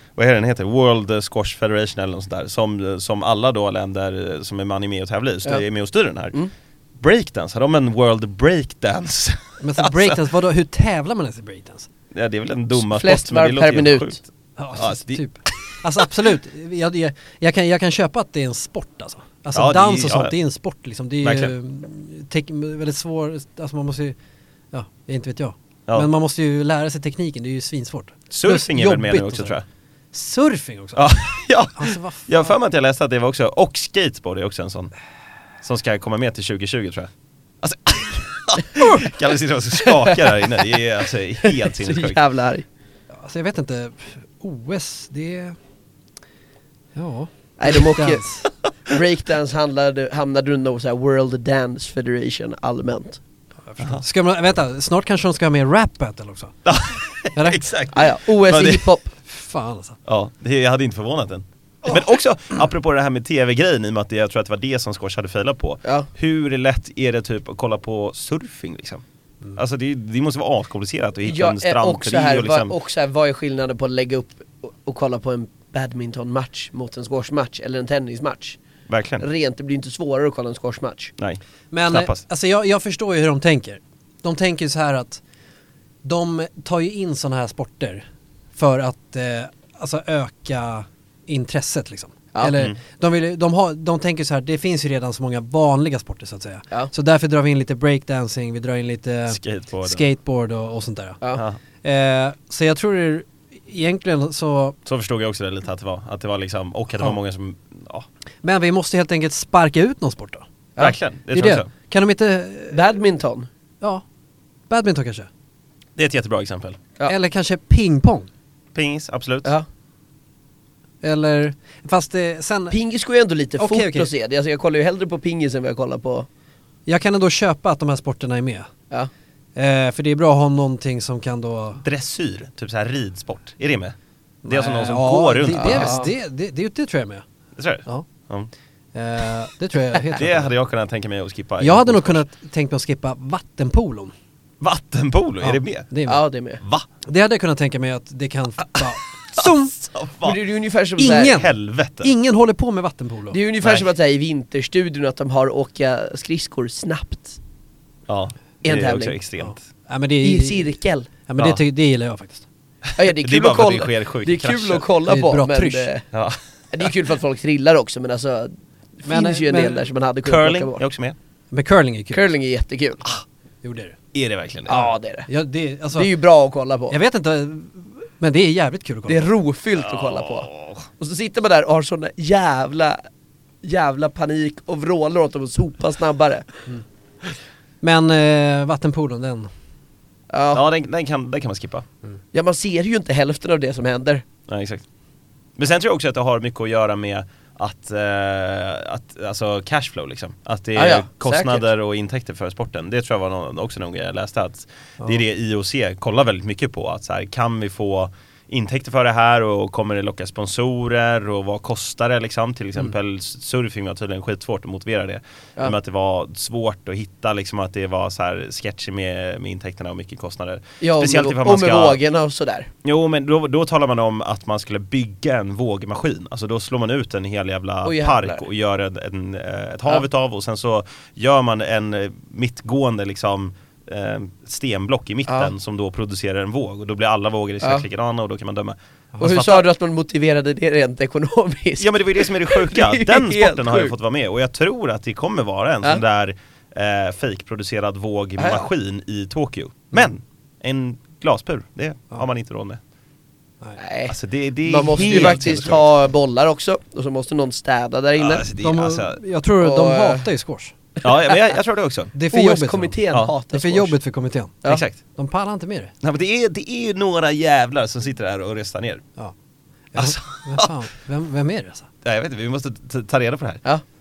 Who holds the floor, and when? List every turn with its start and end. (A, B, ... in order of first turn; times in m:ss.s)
0:00.2-0:06.4 A
0:07.0-0:10.2 A
0:09.6-0:11.9 B
0:12.1-0:15.8 A
0:12.8-0:14.2 C
0:14.6-0:24.2 B
0:19.5-0:20.3 A
0:21.2-0:21.5 A
0:24.7-0:29.6 B
0:28.3-0:29.6 A
0:30.1-0:31.1 B
0:31.0-0:34.9 A
0:31.8-0:32.5 B
0:35.6-0:42.2 A
0:39.8-0:40.4 C
0:41.4-0:42.6 C
0:43.2-0:45.6 B
0:47.0-0:48.5 B
0:47.6-0:48.3 C
0:48.9-0:53.2 C
0:53.7-0:56.6 B
0:56.6-0:58.9 A
0:57.3-0:57.7 B
0:57.9-0:59.1 C
0:59.2-1:00.0 B
1:00.1-1:09.0 A
1:09.6-1:12.7 A
1:11.2-1:18.6 C
1:18.9-1:19.2 A
1:19.2-1:21.1 C
1:21.2-1:22.2 A
1:21.7-1:25.2 B
1:26.0-1:28.0 B
1:28.6-1:41.2 B
1:39.3-1:40.0 A
1:41.8-1:44.8 B
1:44.9-1:48.1 A
1:48.4-1:50.5 B
1:50.8-1:51.7 A
1:51.3-1:52.8 B
1:52.7-1:53.5 C
1:54.7-1:55.3 B
1:56.0-1:56.8 A
1:57.1-1:58.3 B
1:58.7-1:59.5 A
2:01.0-2:02.8 B
2:02.7-2:06.3 C
2:03.6-2:04.1 B
2:06.9-2:08.7 B
2:09.6-2:11.8 B
2:11.8-2:14.0 A
2:14.4-2:17.2 B
2:14.5-2:16.1 A
2:15.5-2:16.1 C
2:17.6-2:18.5 A
2:18.9-2:20.5 B
2:20.1-2:22.2 A
2:21.6-2:24.1 B
2:24.6-2:25.9 A
2:25.4-2:26.2 B
2:26.1-2:26.6 C
2:26.6-2:26.9 A
2:27.0-2:29.8 B
2:28.9-2:30.4 A
2:30.2-2:31.4 C
2:31.0-2:31.5 B
2:31.0-2:32.1 A
2:32.0-2:33.4 B
2:33.3-2:37.4 C
2:33.6-2:33.9 A
2:38.1-2:39.6 A
2:38.6-2:39.2 C
2:39.4-2:40.7 B
2:40.2-2:41.1 C
2:41.3-2:42.5 B
2:43.0-2:46.1 C
2:43.0-2:44.9 A
2:45.1-2:45.9 B
2:46.1-2:46.9 A
2:46.7-2:50.8 C
2:49.1-2:49.9 B
2:50.2-2:51.2 A
2:51.5-2:52.3 B
2:52.1-2:53.1 C
2:53.6-2:54.0 B
2:54.1-2:54.9 A
2:54.7-2:55.3 C
2:55.3-2:56.1 B
2:55.9-2:57.0 C
2:56.9-2:59.3 B
2:59.1-3:03.0 C
2:59.8-3:00.8 A
3:03.6-3:06.6 C
3:07.8-3:09.5 B
3:10.3-3:10.6 C
3:10.5-3:11.9 A
3:12.3-3:14.2 C
3:14.5-3:14.8 A
3:15.6-3:42.0 A
3:20.8-3:21.6 C
3:40.8-3:42.7 C
3:42.8-3:59.7 A
3:47.8-3:48.4 C
3:59.2-4:03.9 C
4:01.8-4:12.8 A
4:08.4-4:08.6 C
4:13.8-4:18.5 C
4:14.1-4:15.9 A
4:15.0-4:15.4 B
4:18.2-4:19.2 A
4:18.6-4:20.7 B
4:19.6-4:20.2 C
4:21.0-4:22.1 A
4:21.0-4:21.4 C
4:22.1-4:23.0 B
4:22.3-4:24.0 C
4:23.5-4:24.6 B
4:24.6-4:25.0 A
4:25.2-4:25.9 B
4:26.0-4:29.0 A
4:29.9-4:31.9 B
4:30.0-4:30.7 A
4:32.0-4:33.6 A